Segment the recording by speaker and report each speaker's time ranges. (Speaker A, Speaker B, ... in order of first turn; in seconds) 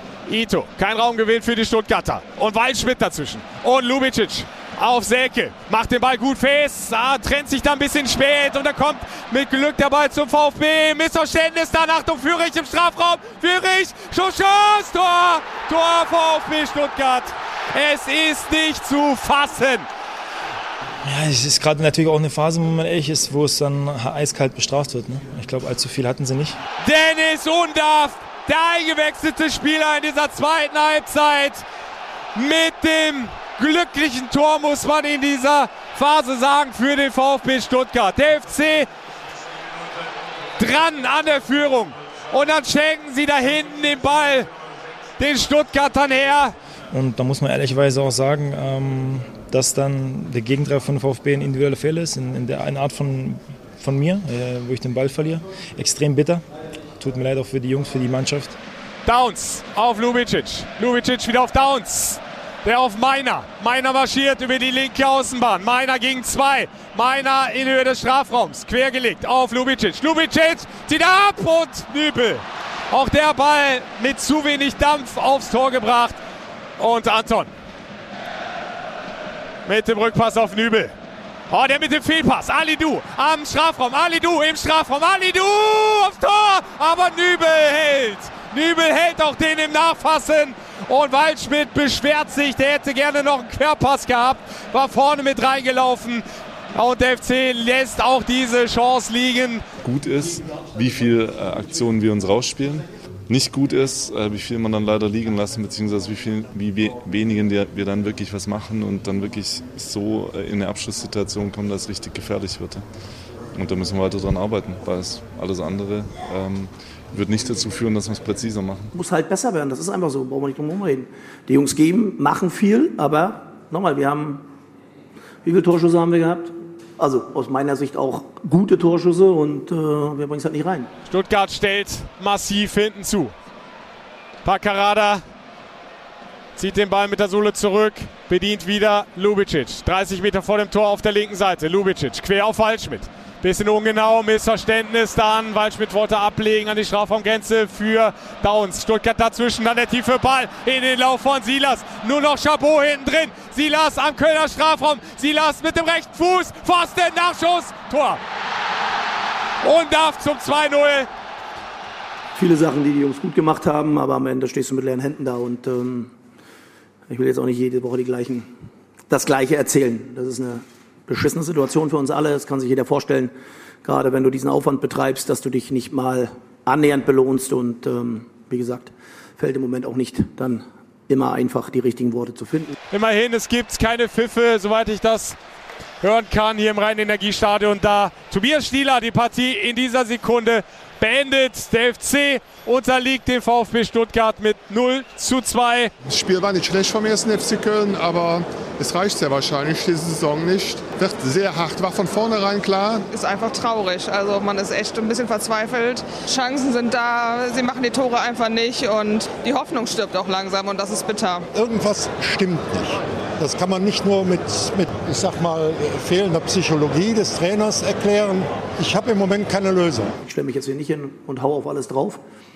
Speaker A: 0.3-19.9, 26.8-31.6, 32.3-38.9, 40.6-44.5, 45.2-46.5, 59.0-76.2, 76.8-77.5, 79.7-80.9, 81.5-99.7, 131.1-133.3, 134.4-135.2, 136.6-158.2, 159.6-161.1, 182.9-185.4, 186.0-195.9
Speaker B: 21.0-26.6, 46.9-56.4, 57.0-58.6
Speaker C: 99.8-112.8, 113.5-118.9
Speaker D: 118.9-124.5, 125.4-130.9, 162.3-166.1, 167.1-168.5, 169.1-173.3, 173.8-182.8, 220.2-222.2
Speaker E: 196.0-203.1
Speaker F: 203.1-211.4
Speaker G: 211.5-220.2